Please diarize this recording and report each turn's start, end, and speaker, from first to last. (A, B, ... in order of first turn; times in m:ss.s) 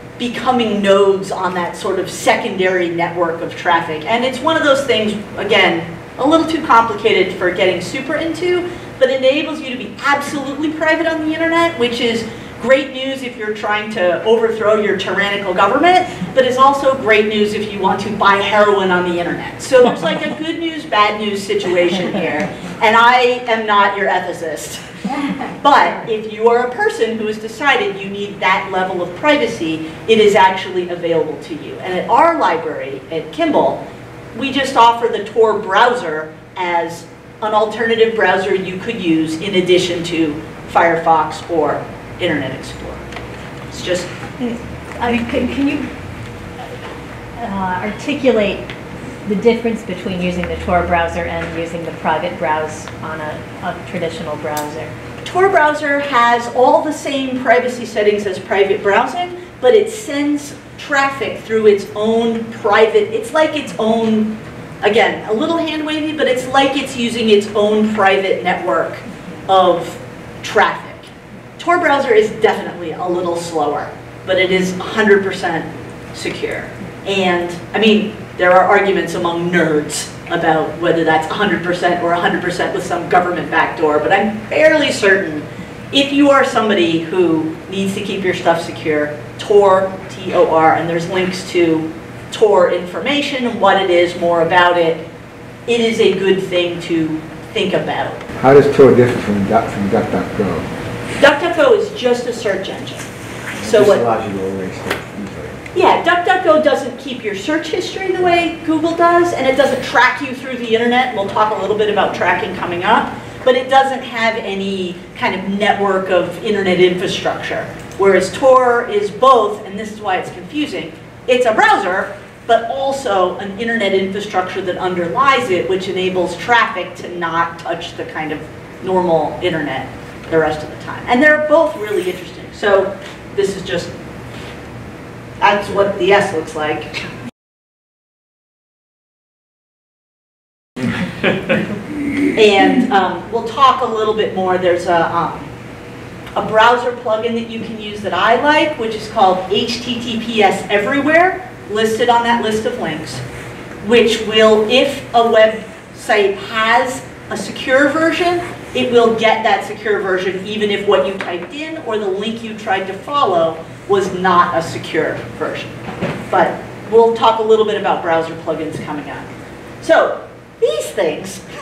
0:00.2-0:24.8 A
0:25.6-0:33.8 A
0:34.3-0:43.0 A
0:43.7-0:44.1 A
0:44.4-0:45.9 B
0:47.4-0:48.7 B
0:49.2-0:54.9 B
0:55.2-1:35.0 A
1:35.7-1:38.2 A
1:38.4-1:40.7 C
1:41.2-1:43.0 A
1:43.6-1:45.6 C
1:43.6-1:44.0 A
1:45.7-2:13.9 A
2:15.4-2:17.0 A
2:22.4-2:25.5 A
2:26.4-2:33.2 A
2:33.8-2:45.8 A
2:46.3-2:49.3 A
2:49.8-2:51.4 A